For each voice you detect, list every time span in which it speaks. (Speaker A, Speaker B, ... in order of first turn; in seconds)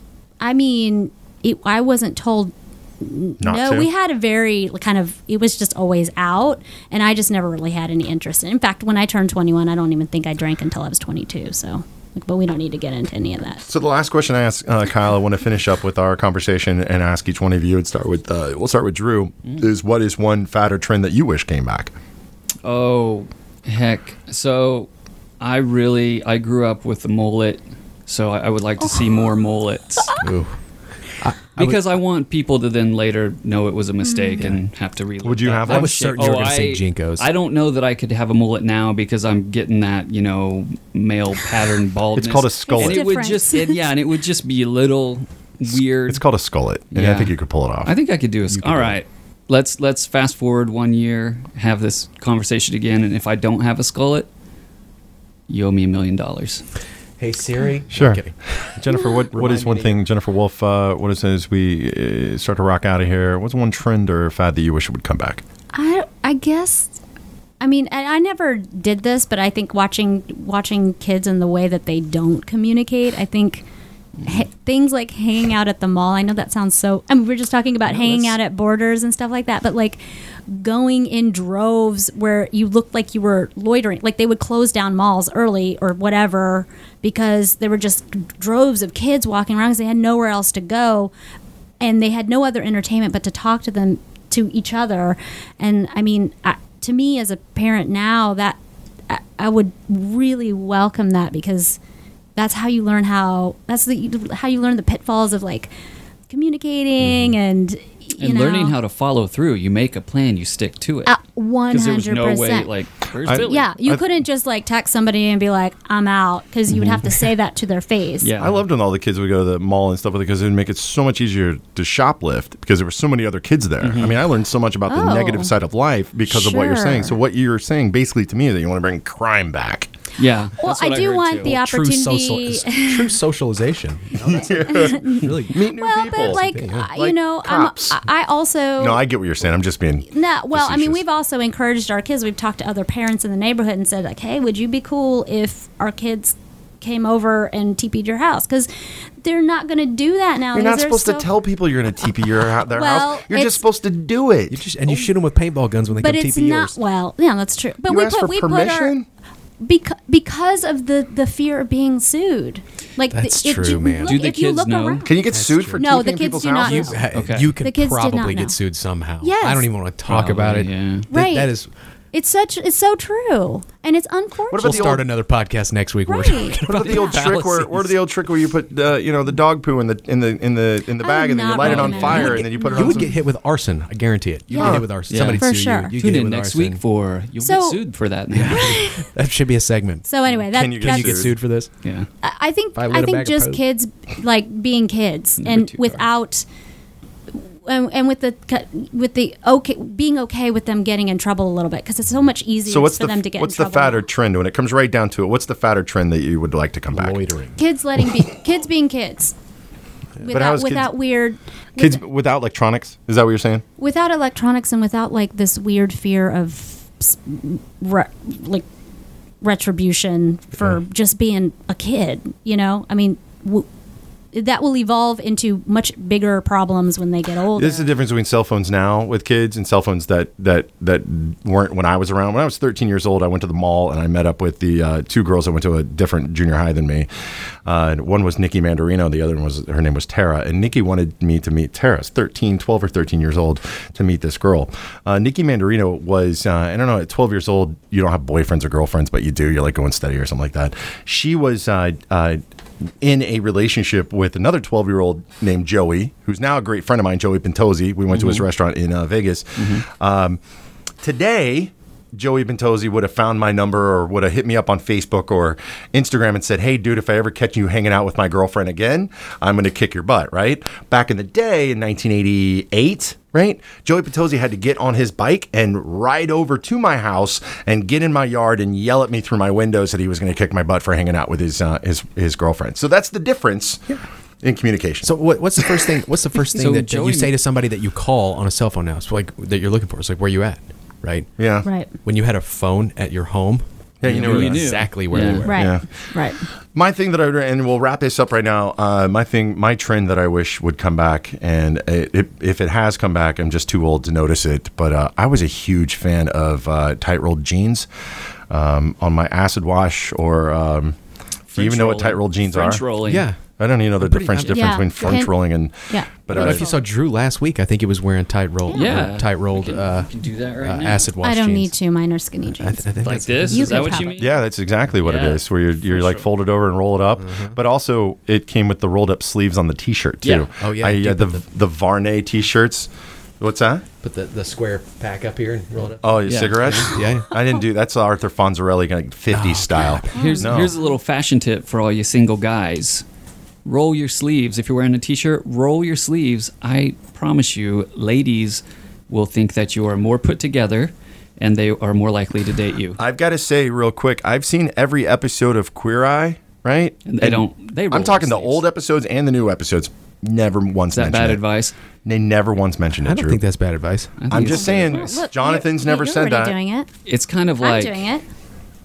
Speaker A: 0.4-13.6, 34.0-34.5, 42.6-43.8, 65.7-66.9, 67.6-73.6, 74.2-91.1, 91.8-98.6, 99.1-101.8, 102.3-105.7, 106.3-108.8, 111.0-112.7, 113.4-118.3, 124.9-125.5, 126.3-127.2, 130.6-133.2, 134.5-139.0, 140.1-148.7, 149.2-151.3, 152.7-153.6, 156.0-158.9, 159.6-165.2, 165.8-167.0, 167.6-168.6, 169.2-169.7, 171.1-171.5, 172.1-174.9, 176.1-177.2, 181.0-183.1, 184.5-185.9, 187.4-187.8, 188.6-189.1, 190.1-191.2, 192.2-196.4, 197.6-204.1, 207.6-209.3, 210.2-212.0, 213.8-218.7, 219.4-223.7, 224.3-227.9, 291.6-291.9, 295.4-296.4, 314.5-316.8, 318.7-319.1, 321.2-324.1, 340.1-340.9, 364.3-366.9, 367.6-368.2
Speaker B: 3.4-3.9, 13.6-21.9, 35.2-36.4, 42.1-43.0, 45.7-47.9, 57.9-65.4, 113.2-114.0, 118.4-129.9, 134.2-138.0, 138.8-141.0, 150.5-155.1, 157.9-159.1, 165.0-167.1, 174.5-175.1, 176.7-183.1, 184.6-184.9, 190.5-191.4, 202.6-207.2, 210.2-210.9, 211.8-213.6, 227.5-237.1, 237.6-252.4, 253.0-260.4, 261.0-283.8, 284.4-285.9, 291.4-291.6, 294.0-294.7, 295.5-296.1, 296.7-307.9, 308.5-310.9, 311.5-312.9, 313.6-316.7, 324.1-332.9, 333.4-333.8, 336.0-340.8, 353.0-361.4, 362.0-363.4, 364.3-366.6
Speaker C: 22.6-24.9, 25.4-30.1, 31.6-46.2, 46.9-47.3, 47.8-54.3, 55.5-56.6, 108.2-111.1, 111.7-113.7, 118.2-118.6, 123.8-124.2, 130.2-131.5, 164.0-165.1, 167.1-167.5, 170.1-171.1, 176.7-177.8, 181.6-182.4, 185.1-188.8, 191.8-192.1, 195.4-195.9, 258.1-258.4, 259.6-259.8, 286.5-287.4, 294.0-295.5, 311.5-313.2, 318.7-321.1, 323.0-324.4, 325.0-326.2, 336.2-337.0, 340.2-343.0, 343.6-353.0, 357.1-358.6, 360.9-361.7, 364.2-365.0, 367.1-368.1
Speaker D: 30.2-30.6, 31.2-31.8, 35.6-37.3, 48.5-49.0, 57.2-58.6, 59.3-60.0, 77.9-78.3, 131.4-136.9, 154.5-156.8, 163.1-164.2, 165.3-166.1, 166.6-171.7, 174.6-177.4, 182.2-186.8, 188.3-190.1, 190.8-191.7, 192.7-193.6, 206.9-207.6, 285.0-291.3, 291.9-295.7, 313.0-313.4, 314.0-315.3, 316.3-321.7, 322.6-324.0, 327.2-327.6, 330.6-331.4, 334.0-337.3, 339.3-340.3, 363.0-364.2